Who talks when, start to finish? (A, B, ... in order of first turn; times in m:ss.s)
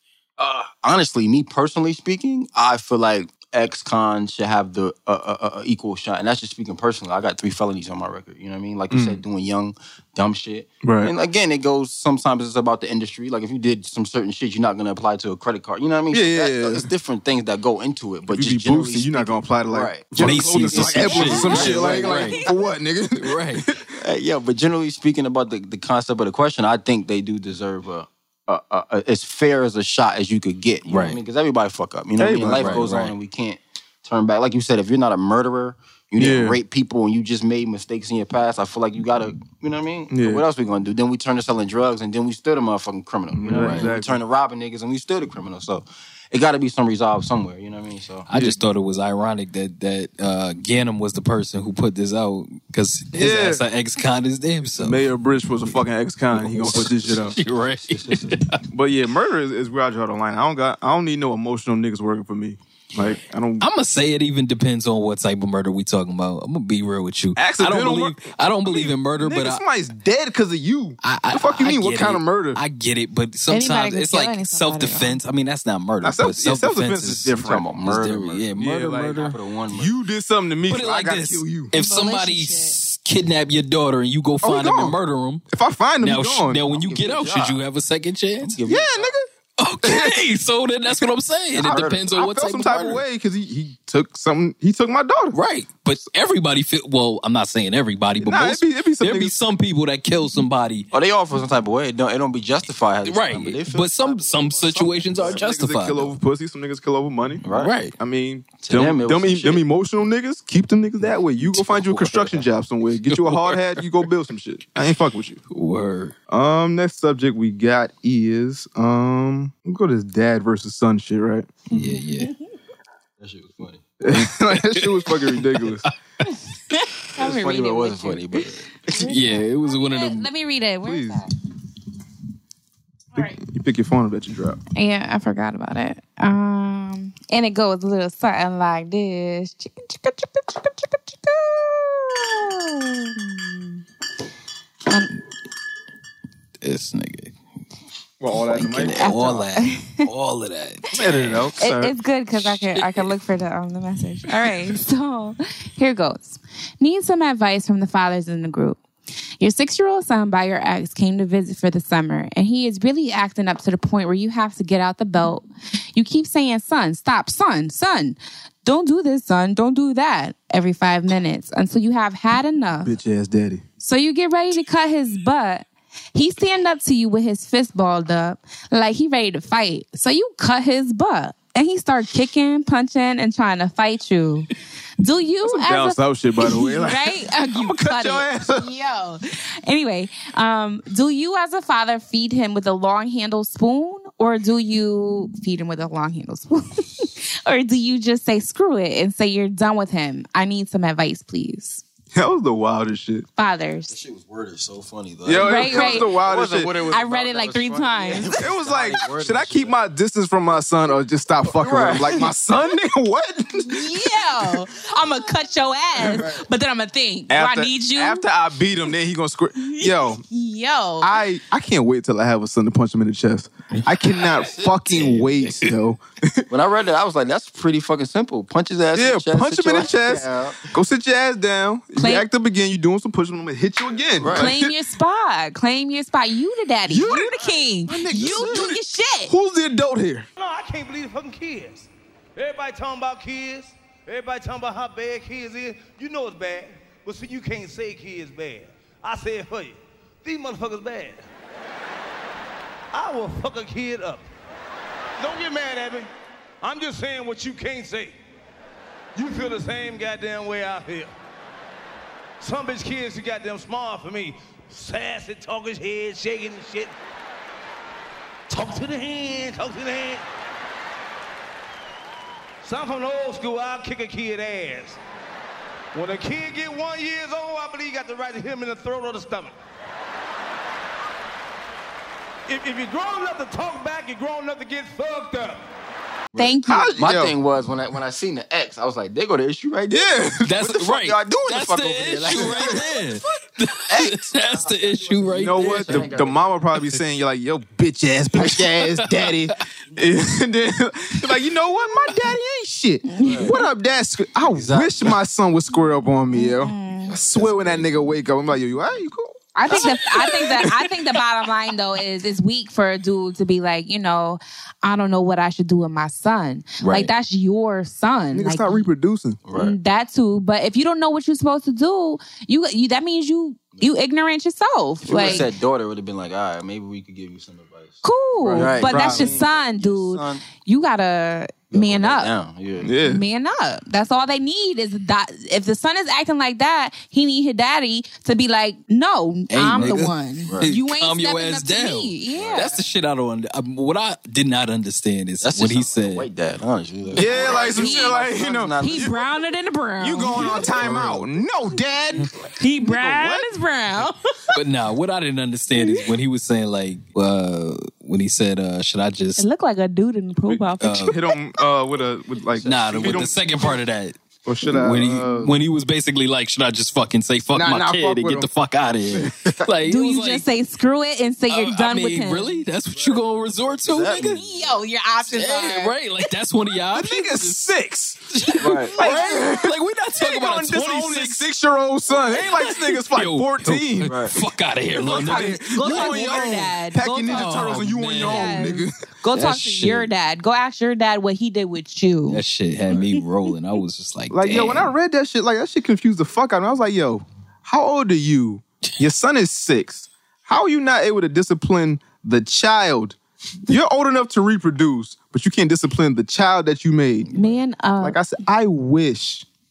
0:00.4-0:22.3 A
0:08.9-0:09.2 B
0:10.8-0:11.1 B
0:16.1-0:16.9 B
0:18.3-0:23.9 B
0:20.2-0:22.4 C
0:23.2-0:23.7 C
0:24.0-0:48.6 A
0:30.9-0:31.2 C
0:32.2-0:32.8 B
0:32.6-0:33.1 C
0:36.2-0:36.6 B
0:40.1-0:40.4 B
0:43.3-0:44.2 B
0:43.5-0:43.9 C
0:48.3-0:55.1 C
0:53.1-0:53.6 B
0:54.8-0:57.4 B
0:56.3-0:58.6 C
0:56.6-0:58.4 A
0:58.7-1:03.6 B
1:03.0-1:09.6 C
1:07.4-1:12.6 B
1:11.0-1:19.4 C
1:13.5-1:15.2 D
1:16.0-1:17.6 B
1:17.4-1:18.5 A
1:18.6-1:21.7 B
1:19.2-1:20.0 A
1:20.7-1:25.4 C
1:21.7-1:22.8 D
1:24.4-1:25.0 B
1:25.5-1:26.7 B
1:26.0-1:28.6 C
1:26.7-1:27.6 A
1:28.4-1:29.1 A
1:28.6-1:29.3 B
1:29.6-1:33.0 C
1:29.8-1:30.2 B
1:31.6-1:32.0 A
1:31.6-1:35.4 B
1:35.3-1:40.9 C
1:38.2-1:39.4 B
1:40.9-1:45.4 A
1:43.0-1:46.1 C
1:45.2-1:47.4 B
1:47.4-1:47.8 A
1:47.5-1:47.9 C
1:48.0-1:55.4 B
1:48.6-1:49.6 A
1:51.7-1:52.4 A
1:53.1-1:53.6 C
1:55.5-1:56.1 C
1:56.3-2:01.5 B
2:01.7-2:02.3 C
2:01.8-2:02.3 D
2:03.2-2:03.8 A
2:04.0-2:05.9 B
2:04.1-2:05.9 C
2:06.7-2:08.2 D
2:07.2-2:09.0 A
2:08.9-2:11.3 D
2:09.0-2:10.3 C
2:10.8-2:11.2 B
2:13.2-2:14.6 B
2:14.8-2:23.8 D
2:26.6-2:27.4 C
2:28.2-2:29.4 B
2:28.4-2:31.5 C
2:29.0-2:30.0 D
2:30.9-2:31.9 B
2:31.6-2:38.8 D
2:32.7-2:33.0 C
2:39.4-2:53.0 D
2:52.8-2:53.6 B
2:53.8-3:04.5 D
3:05.0-3:21.8 D
3:05.4-3:08.7 B
3:22.1-3:23.3 B
3:23.4-3:23.9 D
3:23.9-3:29.8 A
3:25.2-3:26.7 B
3:25.4-3:26.1 D
3:26.9-3:28.4 D
3:28.3-3:34.6 B
3:31.5-3:32.3 A
3:33.6-3:38.2 D
3:36.0-3:36.4 B
3:37.3-3:40.2 B
3:39.6-3:41.2 D
3:41.0-3:46.5 B
3:43.7-3:44.3 C
3:44.4-3:44.8 A
3:44.9-3:45.8 C
3:46.5-3:50.7 A
3:48.9-3:54.7 B
3:52.0-3:52.3 D
3:54.2-3:54.5 A
3:54.3-3:59.3 D
3:56.9-4:00.3 B
4:00.4-4:11.3 E
4:12.9-4:14.3 E
4:15.2-4:16.1 E
4:16.6-4:18.2 E
4:19.2-4:21.1 E
4:22.4-4:26.9 E
4:28.5-4:30.2 E
4:32.6-4:35.0 E
4:35.9-4:39.5 E
4:42.5-4:45.6 E
4:46.4-4:53.0 A
4:46.4-4:47.0 D
4:46.6-4:47.4 B
4:49.9-4:50.6 B
4:50.5-4:56.2 C
4:52.3-4:52.9 B
4:53.9-4:56.4 A
4:55.3-5:09.8 B
4:58.4-4:59.6 C
5:03.1-5:03.6 D
5:03.2-5:03.5 A
5:04.5-5:05.1 A
5:06.3-5:07.1 D
5:07.1-5:07.7 A
5:07.4-5:07.9 C
5:09.6-5:18.9 D
5:10.4-5:10.7 C
5:16.8-5:17.1 C
5:18.3-5:19.4 B
5:19.5-5:19.8 A
5:19.6-5:25.5 D
5:25.0-5:28.0 A
5:25.1-5:25.4 B
5:28.0-5:32.3 D
5:28.4-5:29.3 B
5:28.5-5:30.5 A
5:31.7-5:32.9 A
5:32.8-5:33.2 B
5:33.0-5:42.7 D
5:39.5-5:40.1 C
5:39.7-5:40.1 B
5:40.6-5:46.3 C
5:42.3-5:42.8 A
5:45.4-5:49.2 A
5:47.1-5:49.2 B
5:47.2-5:48.2 D
5:48.8-5:50.7 D
5:50.0-5:52.3 B
5:50.4-5:51.2 A
5:52.6-5:54.2 D
5:52.8-5:53.5 B
5:54.5-5:59.4 C
5:55.8-5:56.0 D
5:59.4-6:01.2 D
6:00.5-6:03.8 B
6:00.8-6:01.2 C
6:02.6-6:10.5 C
6:04.4-6:05.6 B
6:07.5-6:08.5 B
6:09.1-6:09.7 B
6:09.8-6:12.6 D
6:11.5-6:14.4 C
6:13.9-6:14.7 A
6:14.2-6:16.3 D
6:15.3-6:17.7 C
6:16.9-6:24.2 B
6:18.3-6:21.4 C
6:18.6-6:19.0 A
6:19.0-6:19.5 D
6:22.1-6:26.7 C
6:24.1-6:24.4 A
6:24.9-6:28.9 B
6:25.7-6:32.4 D
6:27.3-6:28.7 C
6:29.3-6:30.1 C
6:32.3-6:34.9 C
6:34.3-6:43.2 B
6:43.7-6:47.3 B
6:47.4-6:48.2 D
6:48.0-6:49.5 B